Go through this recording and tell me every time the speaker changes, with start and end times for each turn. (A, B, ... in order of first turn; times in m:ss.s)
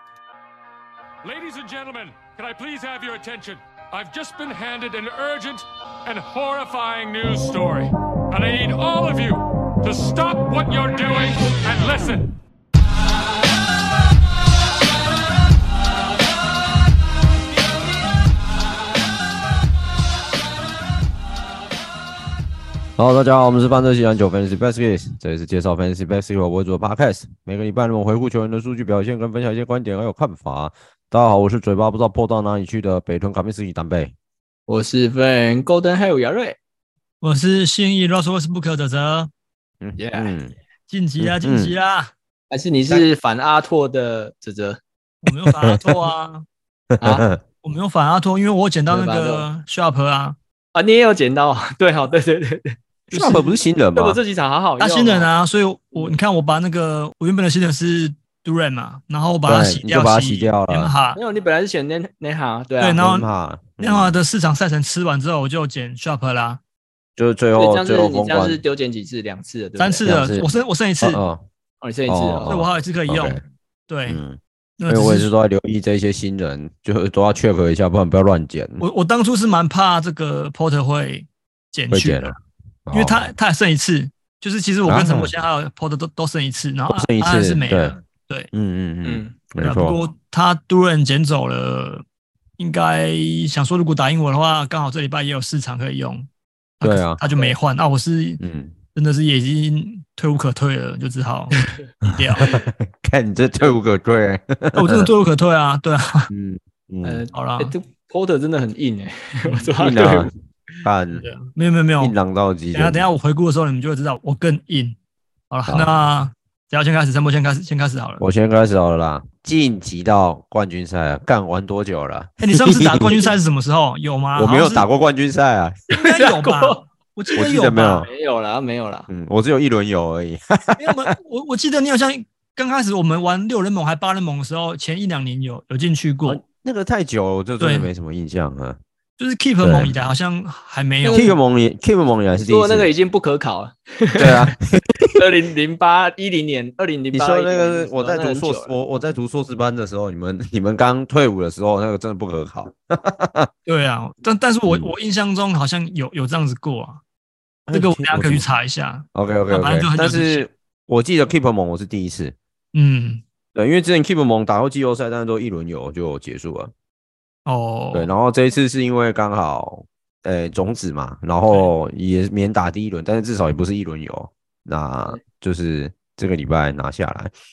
0:01.2-0:12.4 A
0:23.0-0:34.1 B
0:34.7-0:36.6 C
0:37.2-0:39.3 D
0:39.8-0:40.6 B
0:40.0-0:40.4 C
0:40.9-0:42.1 D
0:41.2-0:41.7 B
0:42.5-0:44.8 C
0:45.2-0:46.5 D
0:45.5-0:46.0 B
0:47.0-0:47.4 B
0:47.0-0:47.3 C
0:47.6-0:50.4 D
0:48.9-0:49.5 C
0:50.7-0:55.3 C
0:53.1-0:54.2 B
0:54.8-1:01.2 D
0:59.4-1:00.9 B
1:01.2-1:03.0 C
1:02.8-1:03.3 D
1:03.0-1:04.2 B
1:03.8-1:06.6 D
1:07.2-1:08.6 B
1:07.6-1:10.1 C
1:09.8-1:11.2 D
1:10.0-1:10.5 B
1:11.0-1:11.4 B
1:11.8-1:12.5 C
1:12.1-1:13.4 B
1:12.5-1:14.2 D
1:14.1-1:18.8 B
1:14.8-1:15.3 D
1:18.8-1:22.4 D
1:21.9-1:23.3 B
1:22.9-1:28.5 D
1:24.8-1:25.3 B
1:26.9-1:28.0 B
1:28.5-1:30.0 B
1:29.0-1:29.4 C
1:29.6-1:32.0 D
1:32.6-1:36.3 D
1:36.8-1:38.4 D
1:36.8-1:37.2 B
1:38.4-1:38.8 B
1:39.0-1:42.5 D
1:42.0-1:45.1 B
1:44.7-1:46.3 D
1:46.3-1:47.2 B
1:47.0-1:50.3 C
1:47.3-1:47.7 D
1:49.8-1:50.3 B
1:50.8-1:51.3 B
1:51.1-1:52.1 D
1:52.0-1:53.0 B
1:52.7-1:55.0 D
1:55.5-1:58.2 D
1:58.2-2:03.3 B
2:02.4-2:04.9 D
2:04.4-2:05.9 B
2:05.9-2:06.8 C
2:06.0-2:08.1 D
2:07.4-2:08.1 B
2:08.0-2:09.1 C
2:09.1-2:11.1 B
2:10.8-2:16.4 D
2:16.3-2:18.8 B
2:17.6-2:17.9 D
2:19.2-2:21.4 D
2:19.6-2:19.9 B
2:21.0-2:21.4 C
2:21.1-2:22.9 B
2:22.4-2:24.5 C
2:24.2-2:25.2 B
2:25.2-2:28.7 C
2:27.1-2:33.5 B
2:33.7-2:37.0 D
2:34.7-2:34.9 B
2:37.7-2:38.4 B
2:37.7-2:40.5 D
2:39.1-2:42.4 B
2:42.7-2:43.2 D
2:43.6-2:46.7 B
2:47.5-2:48.1 D
2:47.9-2:57.3 B